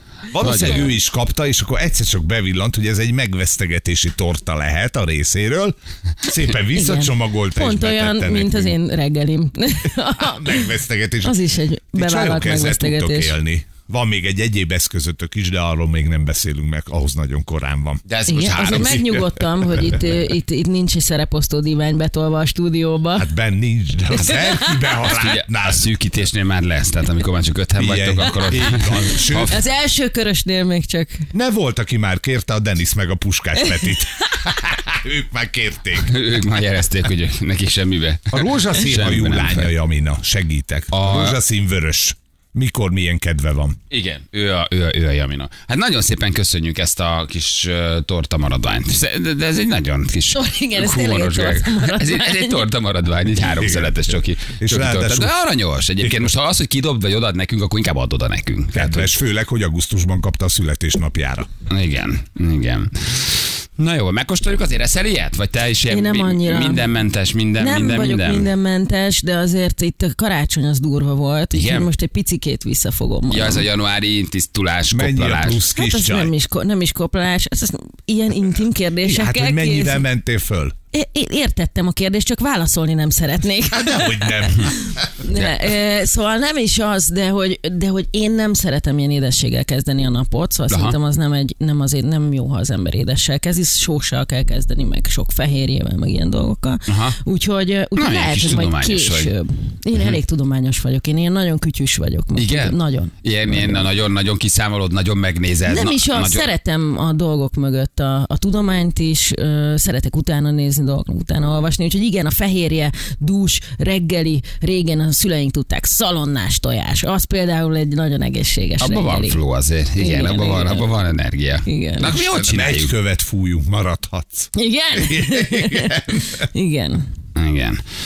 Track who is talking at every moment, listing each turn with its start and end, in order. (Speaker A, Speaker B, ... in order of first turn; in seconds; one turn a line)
Speaker A: 0.3-8.8
Speaker B: 0.4-0.9
Speaker C: 6.7-10.7
Speaker A: 10.2-11.4
Speaker C: 11.2-13.3
Speaker A: 11.9-19.2
Speaker B: 18.1-19.1
Speaker C: 18.2-23.3
Speaker A: 23.1-25.9
Speaker C: 24.2-24.6
Speaker B: 25.1-29.5
Speaker A: 27.8-29.6
Speaker C: 29.4-31.3
Speaker A: 31.3-36.1
Speaker B: 36.0-39.7
Speaker A: 38.3-43.8
Speaker B: 40.9-41.4
Speaker B: 43.9-59.1
Speaker C: 50.3-52.7
Speaker A: 53.4-55.3
Speaker A: 58.7-61.5
Speaker B: 61.7-68.5
Speaker C: 65.9-66.8
Speaker C: 67.6-73.7
Speaker B: 71.5-71.9
Speaker B: 73.3-75.6
Speaker A: 74.9-76.3
Speaker C: 75.8-80.0
Speaker A: 79.0-80.8
Speaker C: 80.9-103.8
Speaker A: 83.7-85.1
Speaker B: 90.7-91.0
Speaker B: 96.9-97.2
Speaker B: 98.0-99.3
Speaker B: 102.4-106.5
Speaker C: 105.7-119.4
Speaker B: 118.8-122.9
Speaker C: 120.0-120.9
Speaker C: 121.7-122.1
Speaker A: 122.1-126.3
Speaker C: 124.5-127.1
Speaker B: 127.3-127.8